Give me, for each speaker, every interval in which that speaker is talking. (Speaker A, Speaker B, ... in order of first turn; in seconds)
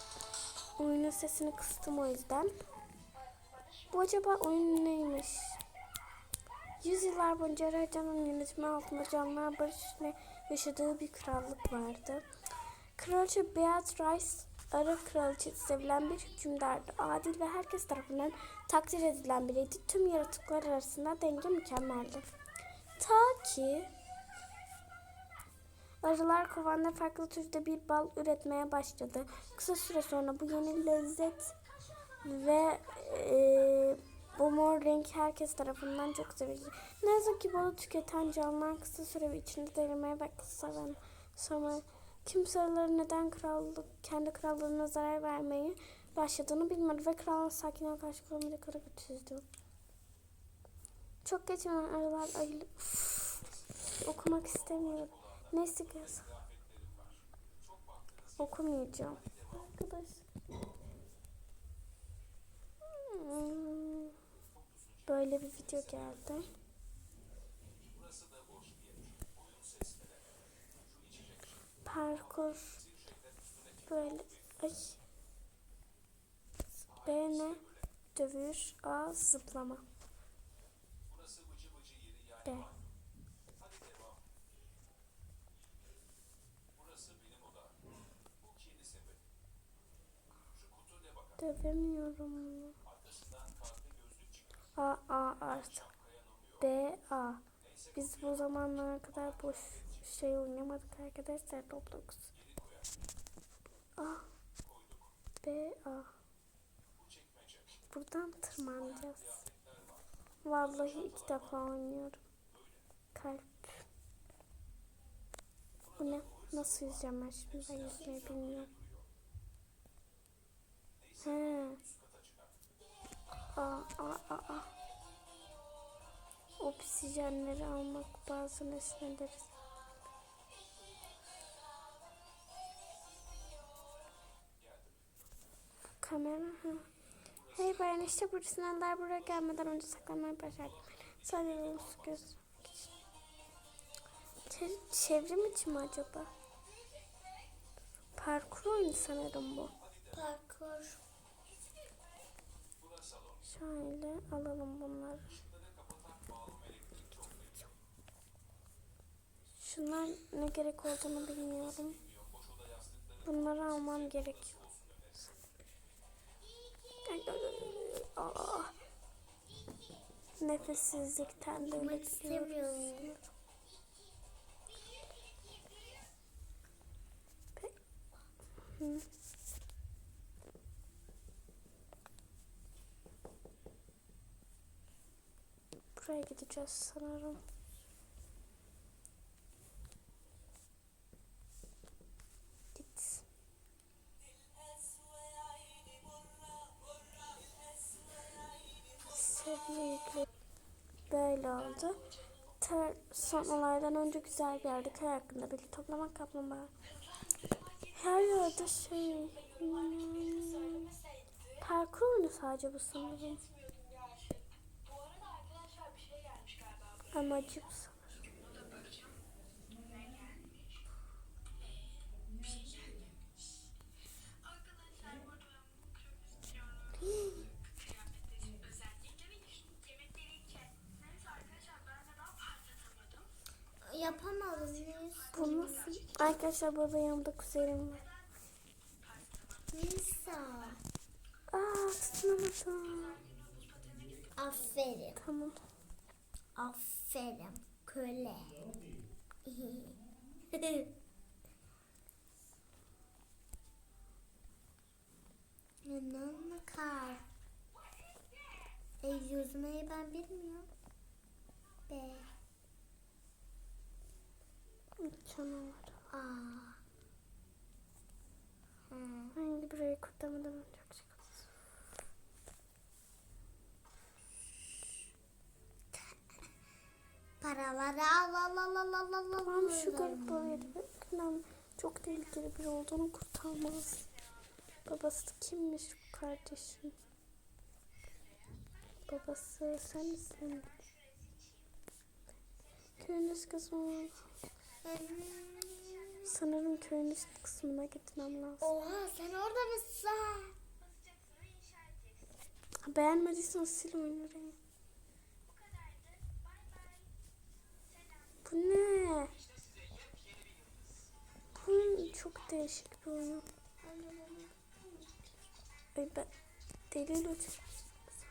Speaker A: 0.8-2.5, 3.9-5.6, 6.8-12.2, 13.0-22.3, 23.0-23.9, 26.0-31.6, 32.2-49.5, 51.2-56.4, 58.4-60.3, 62.9-64.2, 65.1-66.5, 71.8-72.8, 73.9-75.0, 76.9-79.8, 82.5-82.7, 91.4-92.8, 94.8-95.9, 96.6-97.4, 97.9-102.3, 104.0-104.2, 105.4-106.1, 107.9-109.4, 110.5-112.2, 113.2-113.8, 115.9-118.7, 121.2-121.8, 123.4-124.7, 126.6-129.5, 136.0-136.9, 137.5-142.9, 144.5-146.3, 148.2-149.7, 153.4-155.4, 159.6-162.0, 163.2-164.7, 167.1-168.8, 170.4-173.3, 178.7-179.1, 186.0-187.4, 192.8-193.2, 199.1-200.3, 201.1-202.0, 202.6-206.7, 207.9-211.0, 211.5-213.5, 217.1-218.2, 235.3-238.1, 241.5-243.2, 245.2-245.6, 265.0-266.0, 269.4-271.4, 279.4-284.1, 284.9-286.9, 289.1-290.8, 293.0-294.2, 296.2-298.8, 302.9-304.6, 308.4-309.4, 311.6-313.4, 315.9-316.3, 316.9-317.6
Speaker B: 150.1-151.0, 171.7-173.1, 227.0-227.5, 233.8-236.1, 239.7-240.8, 244.3-245.2, 246.6-248.7, 249.4-250.0, 250.5-250.9, 255.8-257.2, 259.0-260.7, 261.9-262.3, 266.1-266.8, 268.9-269.4, 277.4-280.8, 294.8-296.2, 298.6-300.6, 313.8-315.1